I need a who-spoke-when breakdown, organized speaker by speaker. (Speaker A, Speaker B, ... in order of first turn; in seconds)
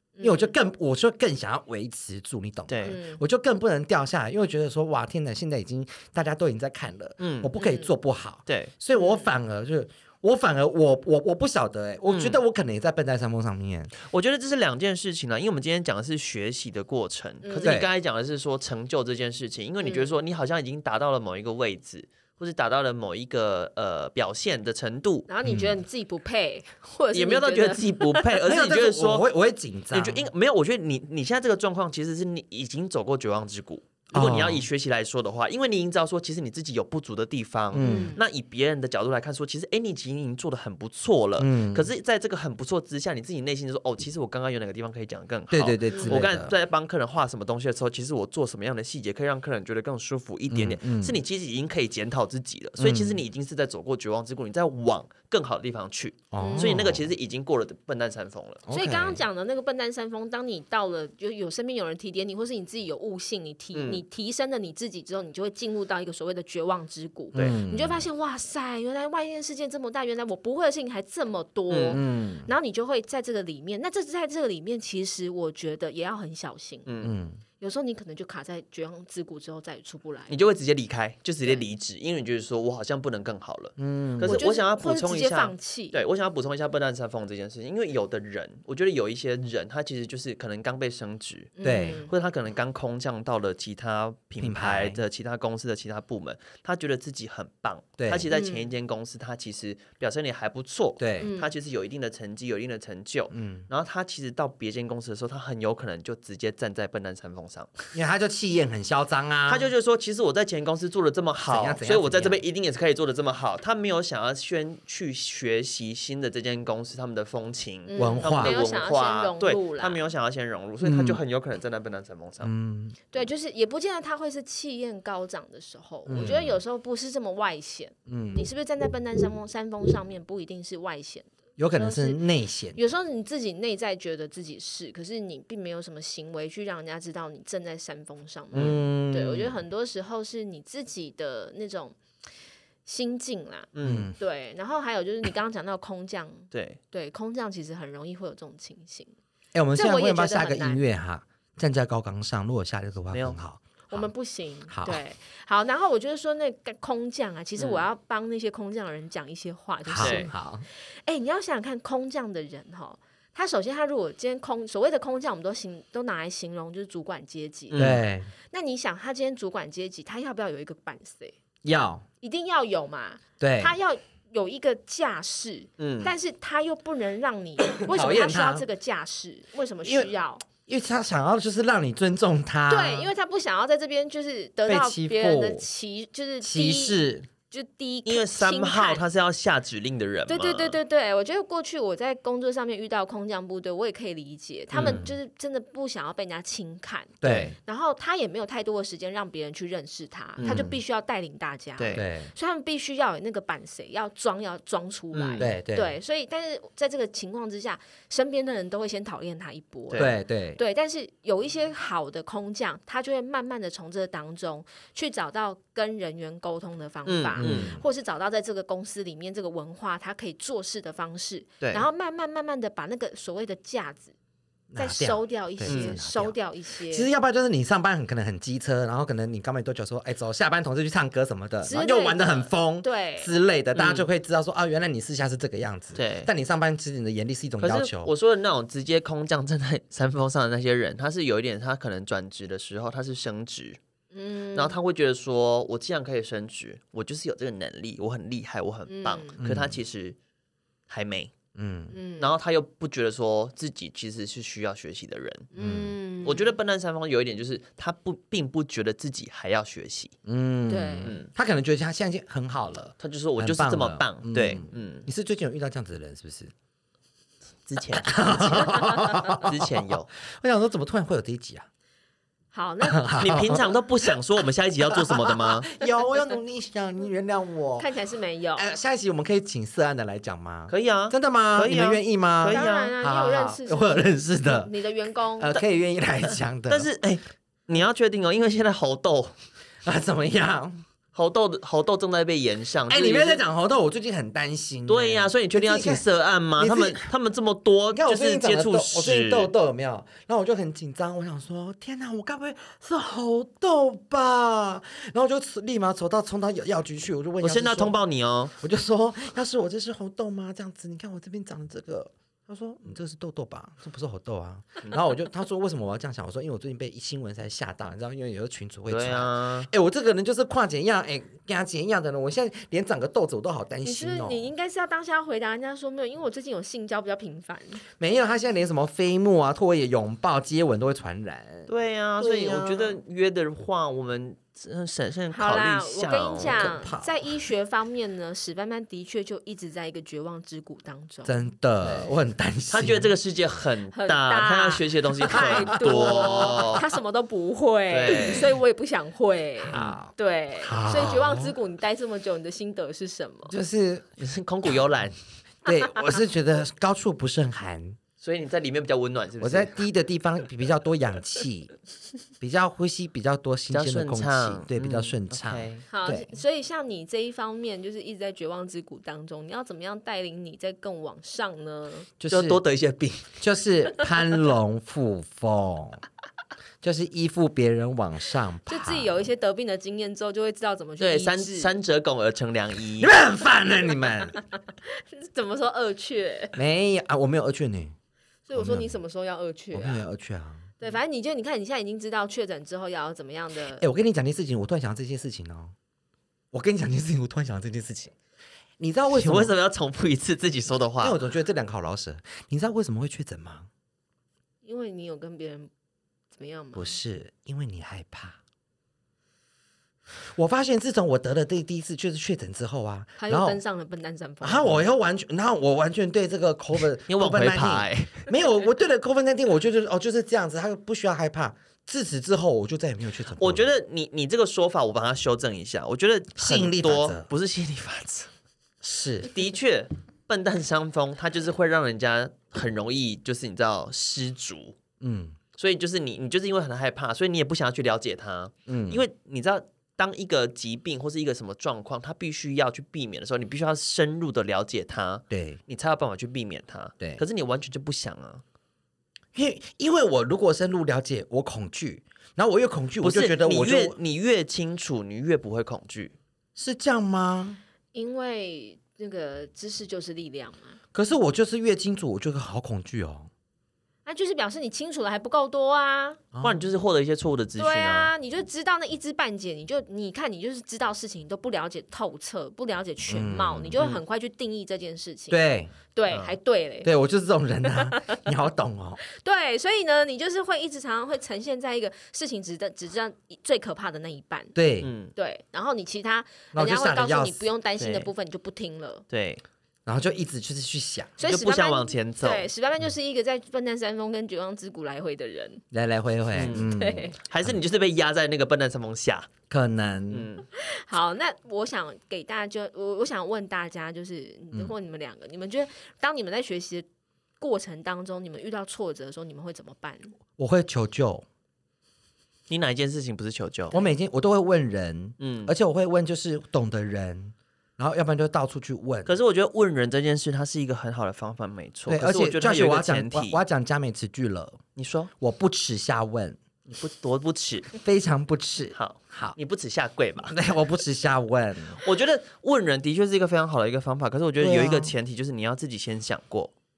Speaker A: 0.1-0.5, 2.8-3.2, 7.6-7.9, 8.9-9.3, 17.4-17.8, 19.8-20.1, 25.3-28.3, 37.8-38.2, 45.9-46.2, 56.4-56.8, 58.7-76.9, 77.6-80.3, 84.2-86.0, 91.6-92.1, 98.3-98.7, 101.2-101.5, 117.9-120.0, 123.1-132.2, 132.7-142.0, 142.8-149.1, 149.7-150.8, 153.9-160.3, 161.0-167.9, 168.5-171.3, 172.2-180.4, 182.7-187.0, 187.5-189.0, 190.3-224.1, 224.8-227.1, 231.6-233.3, 244.1-244.8, 248.9-249.4, 251.9-252.3, 255.5-256.5, 260.7-261.1, 272.5-273.2, 277.8-278.6, 282.5-285.5, 323.8-327.8, 335.3-341.4, 343.9-353.5, 365.9-372.1, 378.7-381.7, 384.8-386.6, 388.5-390.0, 390.8-393.8, 404.6-405.7, 406.3-407.0, 413.2-414.8, 457.9-460.8, 464.1-466.2, 467.6-476.9, 477.8-478.2, 479.2-484.5, 485.1-489.0, 491.2-495.6, 496.5-497.1, 500.6-506.9, 507.4-510.1
Speaker B: 0.2-13.9, 17.6-17.9, 25.4-25.8, 28.4-30.3, 34.1-34.6, 37.7-38.2, 41.4-41.9, 45.5-46.5, 50.5-51.2, 52.8-53.2, 56.3-57.1, 58.7-59.2, 67.3-68.0, 71.9-72.5, 77.0-77.4, 83.8-84.4, 91.6-92.0, 94.4-95.0, 98.0-98.3, 101.0-101.3, 103.3-103.7, 107.9-109.7, 111.4-112.4, 118.0-118.6, 120.8-121.2, 122.4-123.0, 126.0-126.5, 128.1-128.5, 131.6-132.8, 138.5-139.6, 143.8-144.2, 149.5-154.1, 154.7-155.0, 159.8-160.7, 167.8-168.3, 171.6-172.0, 173.4-173.7, 177.7-178.7, 179.8-180.1, 180.7-183.1, 184.7-185.6, 186.4-187.3, 194.8-195.1, 197.2-197.5, 200.4-200.7, 201.9-202.3, 205.4-205.9, 210.0-210.6, 217.4-217.8, 224.7-226.3, 226.9-238.1, 249.4-249.8, 251.5-251.9, 255.6-255.9, 260.2-266.5, 268.0-271.7, 272.8-274.1, 274.9-277.9, 278.6-284.7, 285.4-286.9, 289.8-290.8, 292.9-296.0, 296.6-297.1, 297.9-307.9, 308.6-324.5, 328.0-333.0, 336.4-337.3, 341.2-343.1, 345.3-346.8, 348.1-348.5, 349.7-351.5, 353.5-354.1, 355.6-358.0, 359.4-361.7, 362.4-366.4, 372.2-372.6, 373.4-376.0, 376.8-379.2, 383.0-384.4, 386.6-387.9, 388.5-388.9, 389.7-390.7, 393.8-395.7, 396.5-398.1, 398.8-399.5, 401.0-403.7, 406.7-408.4, 410.3-413.6, 414.4-423.7, 426.4-427.3, 428.8-429.3, 435.0-435.4, 438.7-439.0, 445.3-445.6, 449.3-453.9, 456.6-457.6, 460.9-463.3, 466.3-466.7, 473.1-473.8, 475.3-475.7, 476.8-479.0, 484.5-484.9, 486.5-487.5, 489.9-491.1, 495.7-497.5, 499.5-500.3, 510.4-511.2, 513.7-519.1, 521.9-524.6, 525.2-526.4, 527.8-529.4, 530.3-531.8, 534.4-534.9
Speaker C: 2.7-3.0, 7.2-7.5, 8.5-8.7, 12.1-12.4, 14.0-25.3, 27.1-29.3, 29.9-58.6, 63.7-64.0, 67.3-67.6, 71.7-72.0, 76.8-77.1, 80.3-91.5, 92.1-107.9, 109.5-122.5, 126.2-126.5, 138.5-138.8, 143.7-144.1, 146.5-146.8, 153.1-153.4, 157.6-157.8, 160.0-160.3, 167.7-168.0, 175.8-176.1, 188.1-190.8, 194.7-195.0, 197.2-197.5, 200.4-200.7, 201.8-202.0, 205.1-205.5, 217.1-217.8, 221.6-221.8, 225.7-225.9, 233.7-234.1, 235.9-236.3, 237.6-243.8, 244.5-250.2, 250.9-251.3, 252.2-255.5, 256.2-260.1, 261.0-261.3, 263.0-265.1, 267.6-270.1, 273.2-275.7, 280.7-282.9, 286.7-289.3, 291.1-293.4, 294.9-299.5, 307.4-308.5, 318.9-319.7, 331.7-336.7, 341.8-342.1, 342.7-346.8, 347.9-348.5, 354.2-355.1, 358.2-359.8, 363.7-365.9, 372.3-373.3, 381.0-383.1, 399.1-401.2, 417.1-418.3, 423.4-428.3, 429.3-434.8, 435.6-448.4, 453.0-456.1, 466.4-468.1, 476.1-476.4, 484.8-485.1, 487.8-488.1, 489.1-489.4, 491.2-492.5, 496.3-496.7, 497.2-499.3, 500.1-500.4, 512.5-513.7, 515.2-515.5, 519.0-523.4, 524.8-525.1, 526.7-527.8, 528.7-530.4, 531.8-536.5